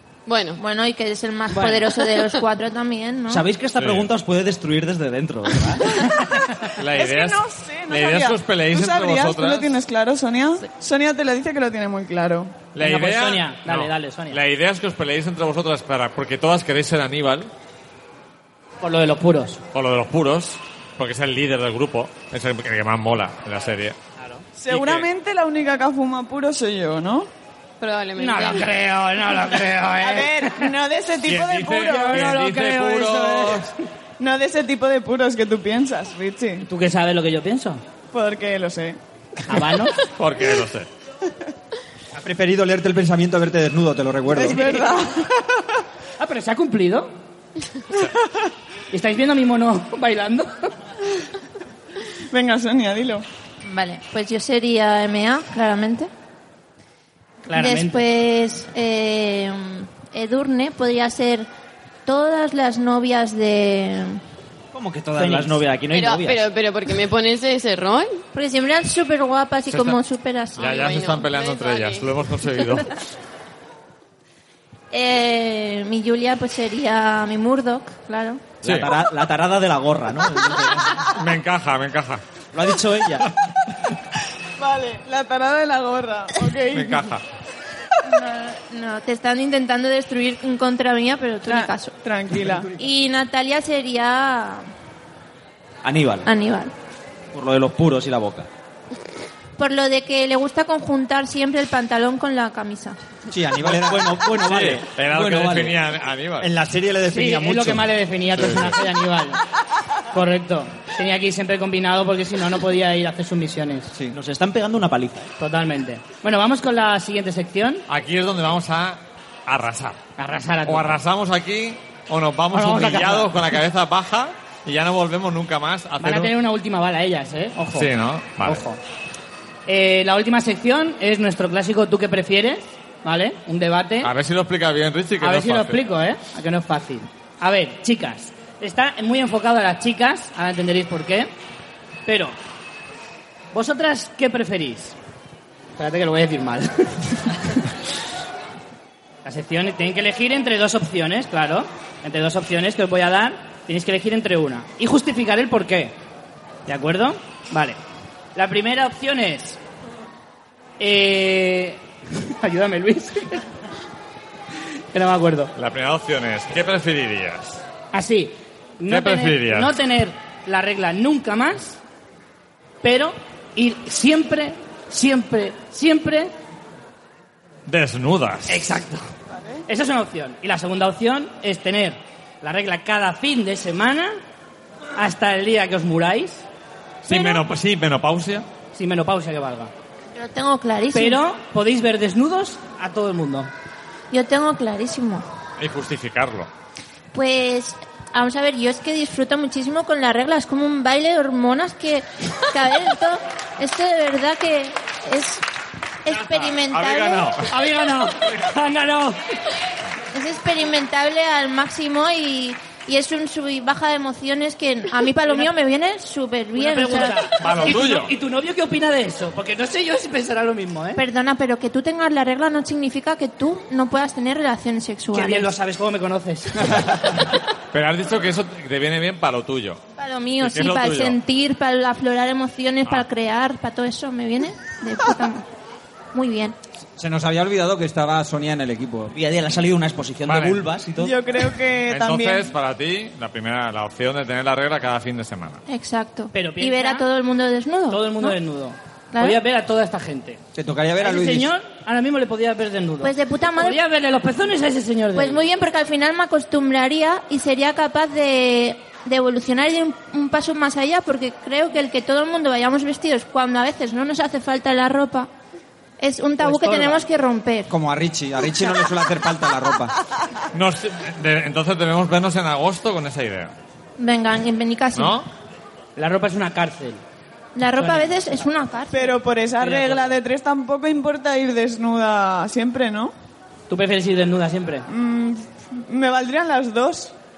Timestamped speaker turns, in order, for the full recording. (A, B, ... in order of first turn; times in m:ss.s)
0:00.3-0:00.6 A
0:00.6-0:03.4 B
0:01.5-0:01.8 C
0:03.3-0:06.0 D
0:03.8-0:04.1 E
0:06.8-0:09.8 E
0:06.9-0:12.6 F
0:12.7-0:17.5 E
0:12.8-0:14.4 C
0:18.8-0:19.6 C
0:19.7-0:24.0 E
0:24.2-0:24.4 C
0:24.6-0:27.3 F
0:24.7-0:25.1 E
0:27.8-0:28.7 A
0:28.2-0:30.7 C
0:30.0-0:32.4 F
0:31.2-0:33.7 E
0:31.8-0:33.7 C
0:34.2-0:36.6 F
0:36.6-0:37.8 C
0:38.1-0:39.0 F
0:39.5-0:40.0 C
0:40.2-0:40.9 E
0:42.2-0:44.8 G
0:44.3-0:45.7 F
0:46.2-0:47.1 C
0:48.9-0:50.7 C
0:52.3-0:53.2 F
0:53.6-0:56.1 B
0:57.5-0:58.0 C
0:57.5-1:01.5 B
1:02.1-1:04.2 B
1:04.7-1:06.5 D
1:05.2-1:05.6 C
1:05.9-1:08.2 A
1:08.3-1:10.9 B
1:09.7-1:10.0 E
1:10.6-1:12.9 E
1:10.6-1:12.1 A
1:14.9-1:18.4 B
1:18.6-1:21.1 D
1:18.6-1:18.9 E
1:21.1-1:22.2 E
1:22.5-1:23.3 D
1:24.6-1:27.1 F
1:26.7-1:27.2 E
1:28.0-1:32.0 B
1:31.5-1:32.7 F
1:32.7-1:34.7 B
1:35.8-1:36.3 D
1:36.3-1:36.7 B
1:37.3-1:38.5 D
1:39.6-1:43.0 B
1:43.3-1:44.2 G
1:43.6-1:45.8 D
1:44.4-1:46.5 E
1:46.4-1:47.9 G
1:47.1-1:49.4 C
1:48.3-1:48.8 E
1:50.1-1:53.9 C
1:54.1-1:55.3 D
1:55.4-1:57.8 C
1:57.9-2:00.0 E
2:00.2-2:01.0 C
2:00.7-2:06.3 E
2:02.5-2:03.4 C
2:06.0-2:07.9 C
2:07.7-2:08.6 E
2:08.4-2:08.8 C
2:09.7-2:14.1 C
2:14.0-2:15.8 E
2:15.2-2:21.3 C
2:22.1-2:22.4 C
2:23.5-2:25.0 C
2:25.8-2:27.4 C
2:29.2-2:36.0 C
2:36.7-2:37.8 C
2:38.4-2:39.6 C
2:40.8-2:43.4 C
2:44.9-2:45.5 C
2:45.6-2:47.6 E
2:47.9-2:51.8 C
2:48.9-2:49.8 E
2:52.8-2:56.3 C
2:57.7-2:58.7 E
2:58.5-2:59.1 C
2:59.7-3:04.2 C
3:05.0-3:06.5 C
3:07.0-3:08.5 E
3:07.1-3:07.4 B
3:08.8-3:09.7 C
3:10.2-3:11.2 B
3:10.9-3:13.5 C
3:14.1-3:15.2 B
3:15.6-3:16.5 E
3:17.1-3:25.4 B
3:26.0-3:27.4 B
3:26.1-3:27.5 E
3:27.5-3:29.2 C
3:30.1-3:37.7 B
3:36.6-3:41.0 C
3:37.4-3:38.1 E
3:41.0-3:45.5 B
3:45.1-3:46.9 C
3:47.7-3:49.8 E
3:50.0-3:55.4 B
3:50.4-3:51.2 E
3:56.1-3:56.6 B
3:57.0-3:59.2 G
3:59.1-4:01.2 D
4:00.3-4:00.7 E
4:01.0-4:02.5 F
4:01.9-4:05.6 E
4:05.7-4:08.4 B
4:06.3-4:07.1 C
4:07.9-4:10.4 C
4:09.1-4:09.4 B
4:10.6-4:11.5 G
4:11.0-4:15.4 C
4:13.0-4:13.8 B
4:15.2-4:25.3 B
4:26.0-4:27.7 B
4:26.4-4:27.0 C
4:27.7-4:29.9 G
4:30.5-4:33.5 E
4:34.0-4:35.2 B
4:35.0-4:35.3 E
4:36.0-4:37.0 C
4:37.6-4:39.2 B
4:37.8-4:38.4 C
4:38.9-4:43.1 F
4:39.6-4:40.2 C
4:43.7-4:44.9 C
4:44.9-4:47.1 F